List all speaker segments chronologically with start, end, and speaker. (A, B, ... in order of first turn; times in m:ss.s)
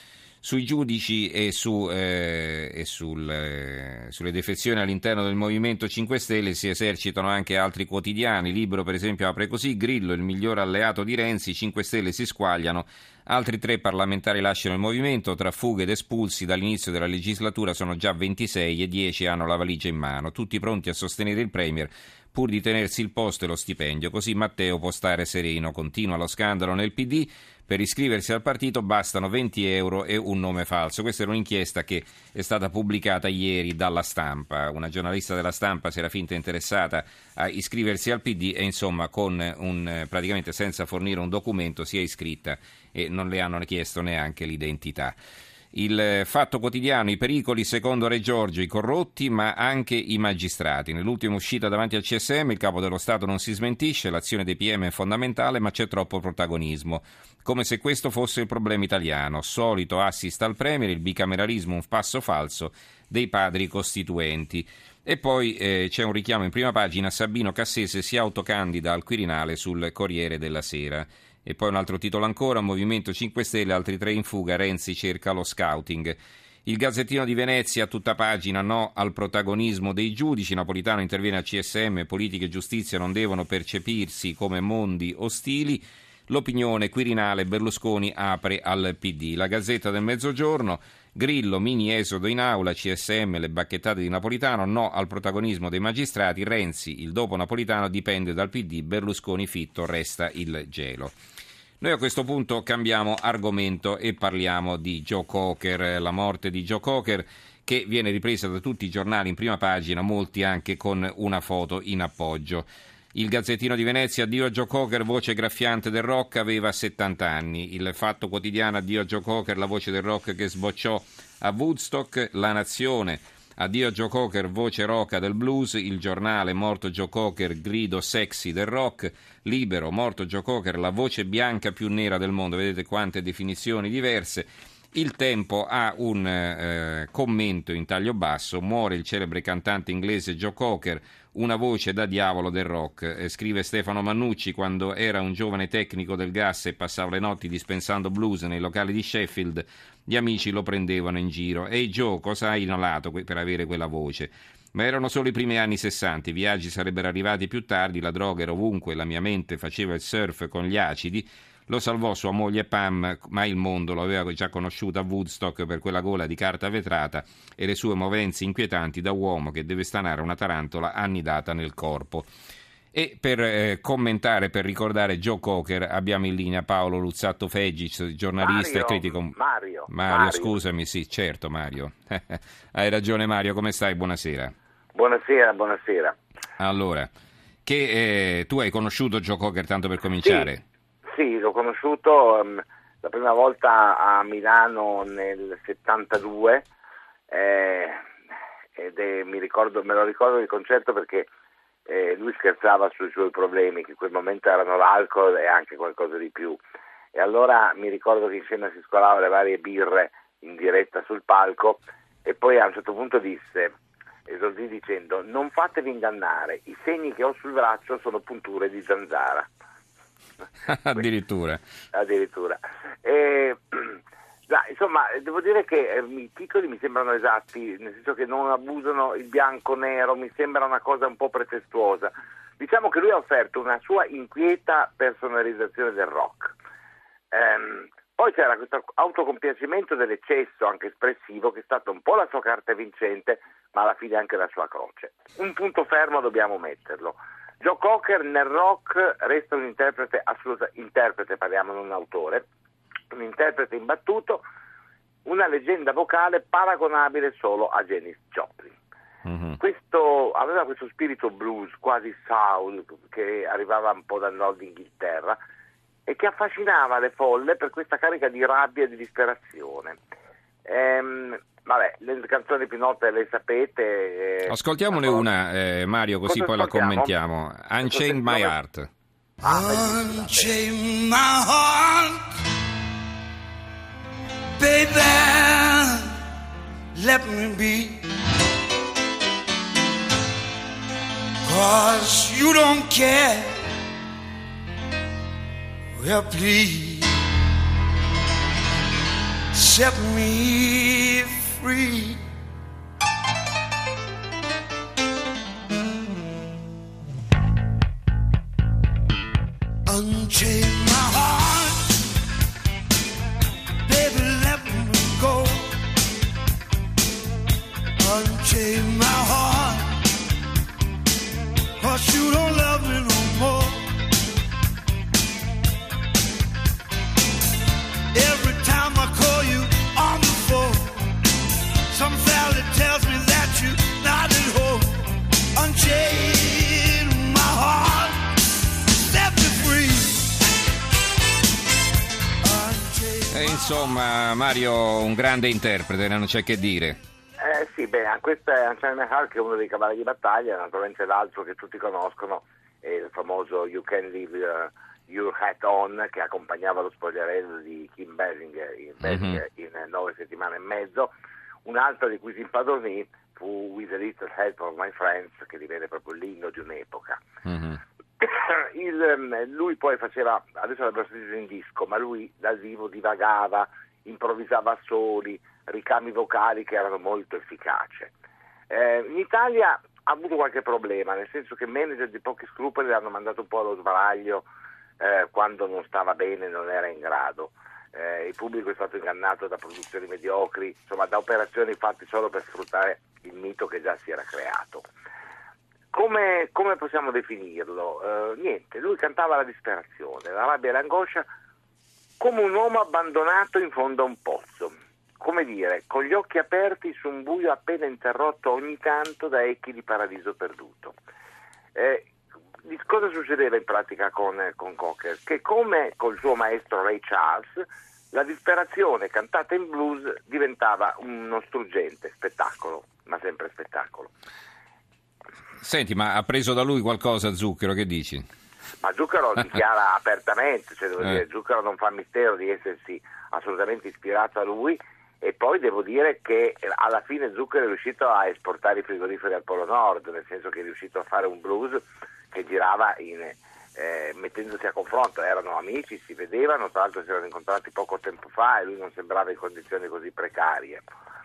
0:00.4-0:45.2 A
0:45.7-1:41.2 A
1:41.8-2:52.3 A
2:52.9-2:59.4 A
2:58.4-3:00.6 B
2:59.9-3:04.5 A
3:05.0-3:06.2 B
3:06.6-3:07.1 A
3:07.7-3:10.6 A
3:10.2-3:10.5 B
3:11.1-3:16.7 B
3:17.3-3:18.0 B
3:18.8-3:21.3 B
3:21.9-3:26.6 B
3:27.2-3:33.7 B
3:34.3-3:39.5 B
3:40.6-3:41.6 A
3:41.9-3:56.6 B
3:57.3-4:12.4 B
4:13.1-4:14.4 B
4:15.2-4:18.8 B
4:19.2-4:19.6 A
4:19.6-4:25.4 B
4:26.1-4:30.0 B
4:30.7-4:35.3 B
4:34.5-4:38.9 A
4:36.3-4:37.2 B
4:37.8-4:38.5 B
4:39.4-4:42.3 C
4:39.4-4:40.5 B
4:44.6-4:46.2 C
4:47.0-4:48.0 C
4:51.4-4:53.6 C
4:56.0-4:57.2 C
4:59.5-5:02.2 C
5:09.9-5:12.0 C
5:13.9-5:15.8 C
5:18.0-5:20.0 C
5:21.8-5:23.9 C
5:28.1-5:31.0 C
5:31.9-5:38.3 C
5:39.1-5:40.2 C
5:42.4-5:43.6 C
5:43.3-5:47.0 A
5:47.4-6:01.1 B
5:59.0-5:59.4 A
6:01.7-6:07.2 B
6:07.4-6:07.8 A
6:08.2-6:18.1 B
6:18.7-6:24.5 B
6:25.0-6:34.9 B
6:35.9-6:41.3 B
6:42.2-6:50.9 B
6:51.8-6:52.1 B
6:52.7-7:04.1 B
7:05.6-7:08.2 A
7:08.8-7:30.8 B